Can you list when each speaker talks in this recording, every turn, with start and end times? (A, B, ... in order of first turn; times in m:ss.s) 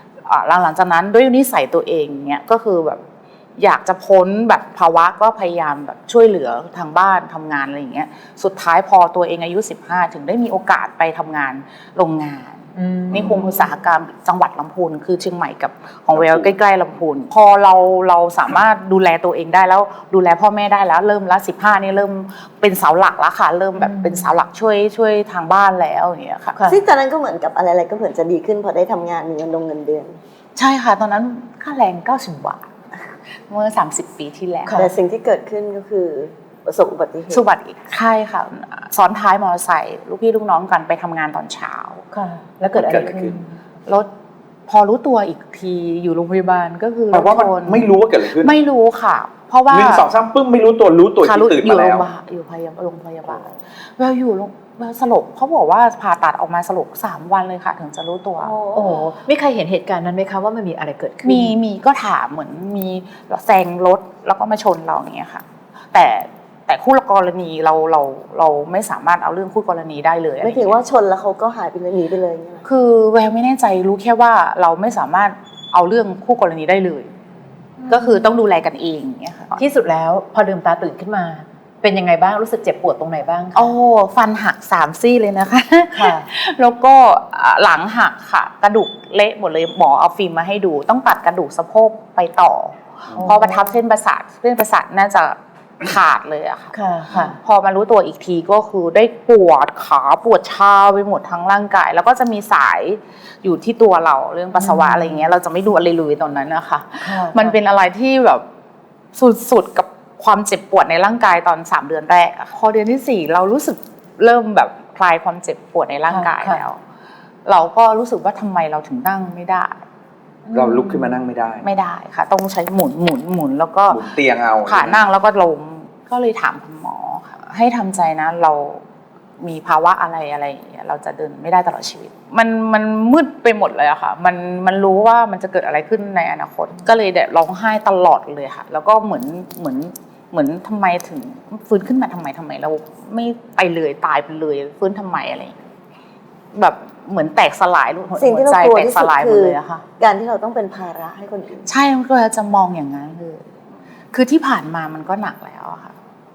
0:00.2-0:03.0 A
0:03.6-0:26.6 A
0:12.8-0:13.5 B
0:13.1-0:13.5 C
0:16.1-0:16.5 C
0:23.8-0:24.3 B
0:26.5-0:26.8 B
0:26.6-0:30.2 D
0:30.6-0:32.7 A
0:33.5-0:34.8 A
0:34.6-0:34.9 B
0:34.7-0:37.5 D
0:37.3-0:42.0 A
0:42.1-0:43.5 B
0:42.7-0:43.4 C
0:44.7-0:50.1 A
0:47.1-0:48.5 C
0:49.7-0:52.1 C
0:51.2-0:58.5 A
0:58.4-0:59.0 D
0:58.7-1:01.5 B
1:01.2-1:10.8 A
1:10.4-1:12.6 D
1:12.6-1:17.1 A
1:17.8-1:18.3 B
1:17.9-1:19.6 A
1:19.6-1:23.7 B
1:23.5-1:48.4 A
1:25.9-1:26.3 B
1:33.1-1:33.7 B
1:36.7-1:37.4 B
1:44.5-1:45.3 B
1:47.0-1:47.6 B
1:49.1-1:56.8 A
1:56.1-1:56.6 B
1:57.4-1:59.8 A
2:00.5-2:01.2 B
2:00.5-2:01.6 C
2:01.6-2:04.0 A
2:03.9-2:05.0 C
2:04.6-2:08.8 A
2:09.4-2:25.7 A
2:26.5-2:29.8 A
2:28.1-2:31.7 D
2:31.6-2:33.5 A
2:34.1-2:36.0 A